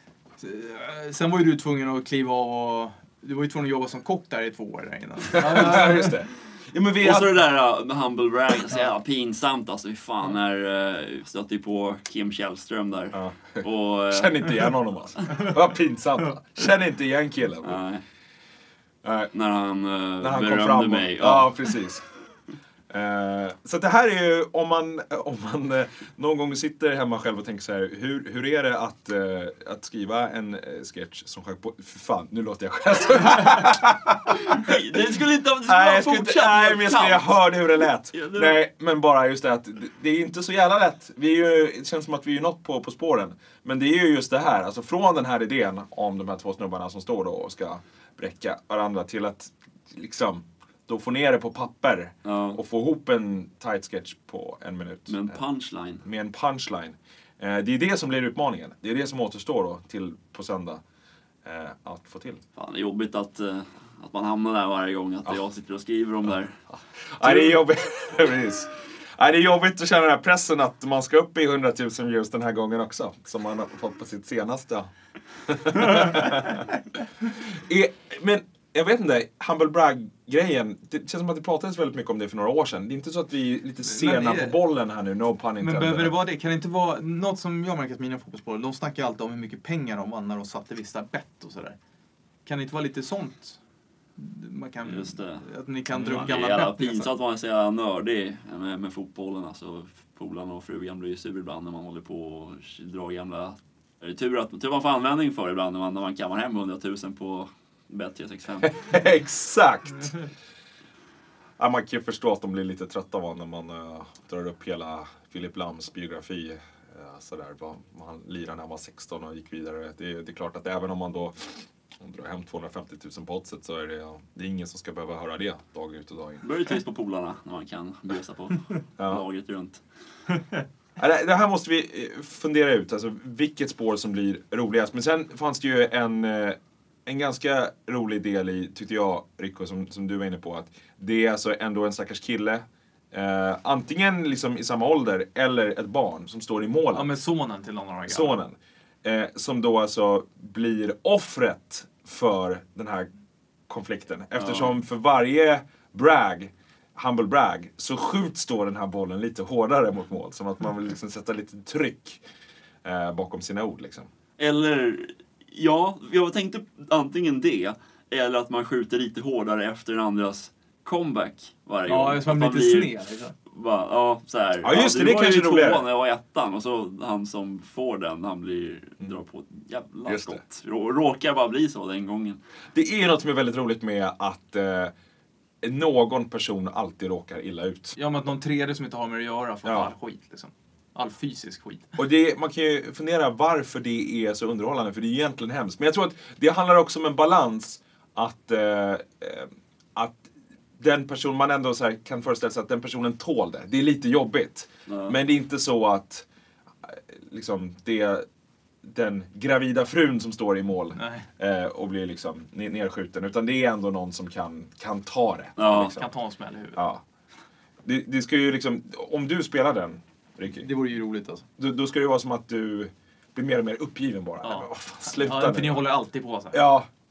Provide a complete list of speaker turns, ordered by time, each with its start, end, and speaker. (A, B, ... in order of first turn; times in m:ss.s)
0:00.4-0:06.1 A
0:05.3-0:07.3 B
0:07.0-0:14.7 C
0:13.1-0:17.8 B
0:17.6-0:18.0 C
0:19.0-0:19.3 B
0:19.3-0:21.6 C
0:20.2-0:22.0 B
0:22.9-0:34.8 B
0:34.5-0:38.6 C
0:35.7-0:55.4 B
0:52.2-0:52.6 C
0:55.1-0:56.0 C
0:56.0-1:00.8 B
1:01.4-1:02.4 B
1:02.6-1:06.6 C
1:06.3-1:14.9 B
1:07.2-1:07.6 C
1:15.5-1:16.7 B
1:17.4-1:26.1 B
1:23.8-1:24.6 A
1:25.6-1:31.8 A
1:32.4-1:33.6 A
1:34.2-1:37.1 A
1:34.8-1:35.5 C
1:35.9-1:36.3 B
1:36.0-1:48.8 C
1:48.6-1:50.2 B
1:51.6-2:06.4 B
2:06.4-2:09.8 C
2:11.0-2:27.1 B
2:26.9-2:28.4 A
2:28.1-2:33.1 B
2:33.7-2:42.2 B
2:34.4-2:34.7 C
2:42.8-2:44.1 B
2:44.4-2:52.9 C
2:51.9-2:53.4 A
2:53.5-3:02.4 C
2:54.6-2:55.9 B
3:00.1-3:00.4 B
3:02.7-3:04.9 B
3:05.6-3:08.0 B
3:08.0-3:12.0 A
3:09.6-3:09.9 B
3:12.0-3:26.3 B
3:24.9-3:25.2 C
3:26.8-3:28.2 B
3:28.8-3:36.0 B
3:31.0-3:31.3 A
3:35.6-3:36.0 C
3:35.6-3:36.8 A
3:36.8-3:37.0 B
3:37.8-3:40.7 B
3:40.5-3:41.4 A
3:41.6-3:45.9 B
3:44.4-3:46.6 A
3:46.5-3:46.9 B